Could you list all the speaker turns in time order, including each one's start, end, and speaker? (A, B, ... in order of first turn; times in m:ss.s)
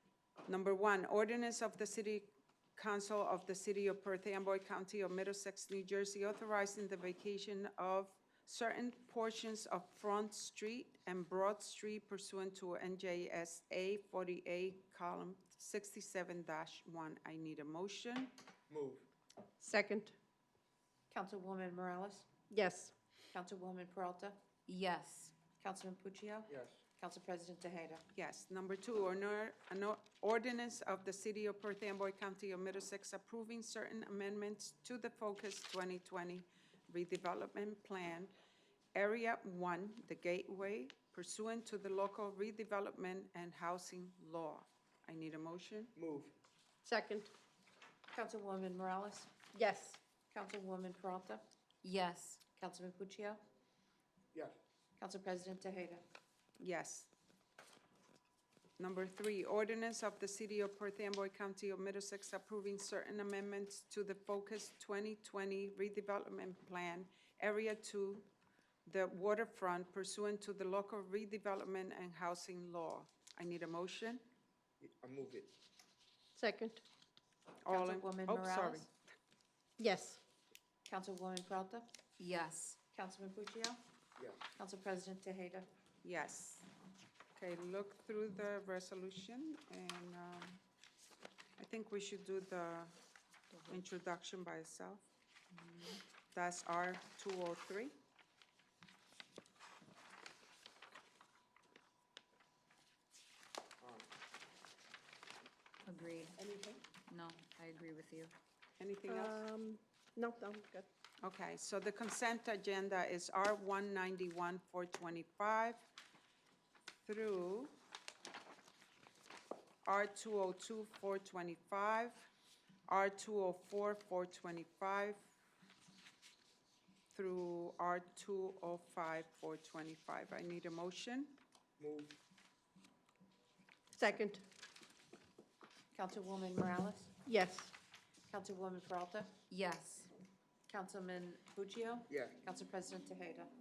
0:00.5-0:18.3 A
0:18.7-0:19.0 B
0:19.6-0:20.1 C
0:21.1-0:22.4 D
0:22.5-0:22.9 C
0:23.3-0:24.4 D
0:24.7-0:25.3 E
0:25.6-0:28.0 D
0:26.5-0:26.8 B
0:28.1-0:38.3 A
0:38.9-0:45.9 A
0:46.0-0:46.3 B
0:46.8-0:47.3 C
0:48.1-0:49.5 D
0:49.5-0:50.0 C
0:50.3-0:51.4 D
0:51.8-0:52.4 E
0:52.6-0:53.4 D
0:55.0-0:56.0 D
0:56.6-0:57.1 A
0:58.8-1:08.2 A
1:08.8-1:14.2 A
1:14.8-1:15.5 B
1:16.4-1:16.8 C
1:17.6-1:18.9 A
1:17.7-1:18.9 D
1:19.8-1:20.2 C
1:20.8-1:21.9 D
1:22.2-1:22.8 E
1:22.9-1:23.8 D
1:24.6-1:25.6 D
1:26.0-1:26.6 A
1:27.3-1:30.6 A
1:31.6-1:32.9 A
1:33.5-1:33.8 E
1:33.7-1:35.0 A
1:35.5-1:36.0 E
1:36.3-1:37.9 A
1:45.8-1:46.4 E
1:46.4-1:46.8 B
1:47.1-1:48.3 E
1:48.8-1:49.5 A
1:49.1-1:50.9 C
1:51.2-1:55.8 A
1:57.0-1:57.7 A
1:59.8-2:02.3 A
2:02.9-2:05.2 A
2:07.1-2:11.4 A
2:11.8-2:12.2 B
2:14.0-2:14.4 C
2:15.9-2:17.1 D
2:17.2-2:17.7 C
2:18.3-2:19.3 D
2:19.5-2:20.1 E
2:20.7-2:23.5 D
2:22.1-2:22.4 B